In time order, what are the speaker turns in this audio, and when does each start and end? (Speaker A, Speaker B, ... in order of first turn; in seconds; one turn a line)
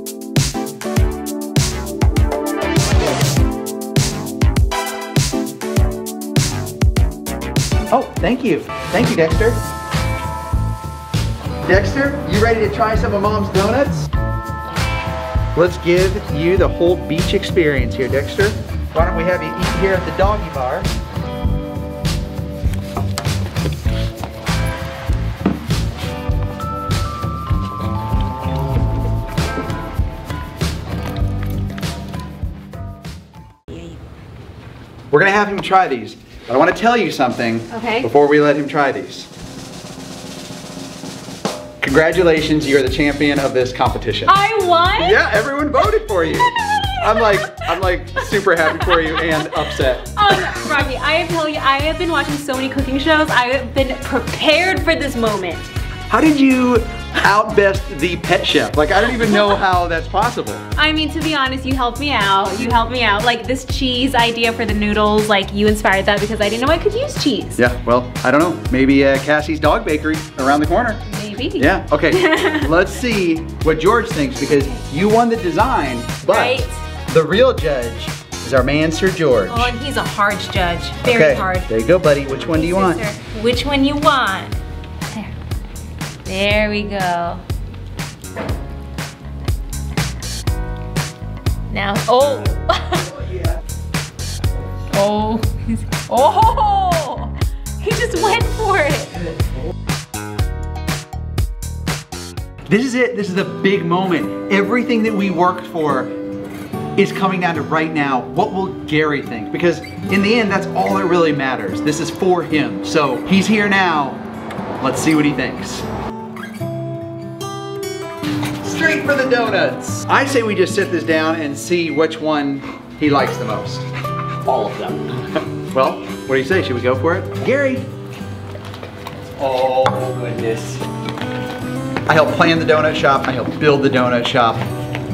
Speaker A: 7.9-9.6
Speaker A: 11.7-14.1
Speaker A: 15.5-20.9
Speaker A: 35.1-39.3
Speaker B: 37.7-38.0
Speaker A: 41.8-44.3
Speaker B: 44.2-45.2
Speaker A: 45.0-50.4
Speaker B: 48.9-49.4
Speaker B: 50.0-55.6
Speaker A: 56.1-60.6
Speaker B: 59.2-59.5
Speaker B: 60.8-67.6
Speaker A: 67.6-71.0
Speaker B: 71.1-72.7
Speaker A: 71.6-79.7
Speaker B: 76.3-76.8
Speaker B: 79.5-81.7
Speaker A: 81.0-83.0
Speaker B: 82.5-84.6
Speaker B: 86.2-87.4
Speaker B: 91.7-93.2
Speaker B: 94.9-99.1
Speaker A: 102.7-106.2
Speaker A: 107.0-114.2
Speaker A: 114.8-115.8
Speaker A: 118.6-123.8
Speaker C: 124.4-125.0
Speaker A: 125.7-127.9
Speaker C: 129.4-130.8
Speaker A: 132.1-134.7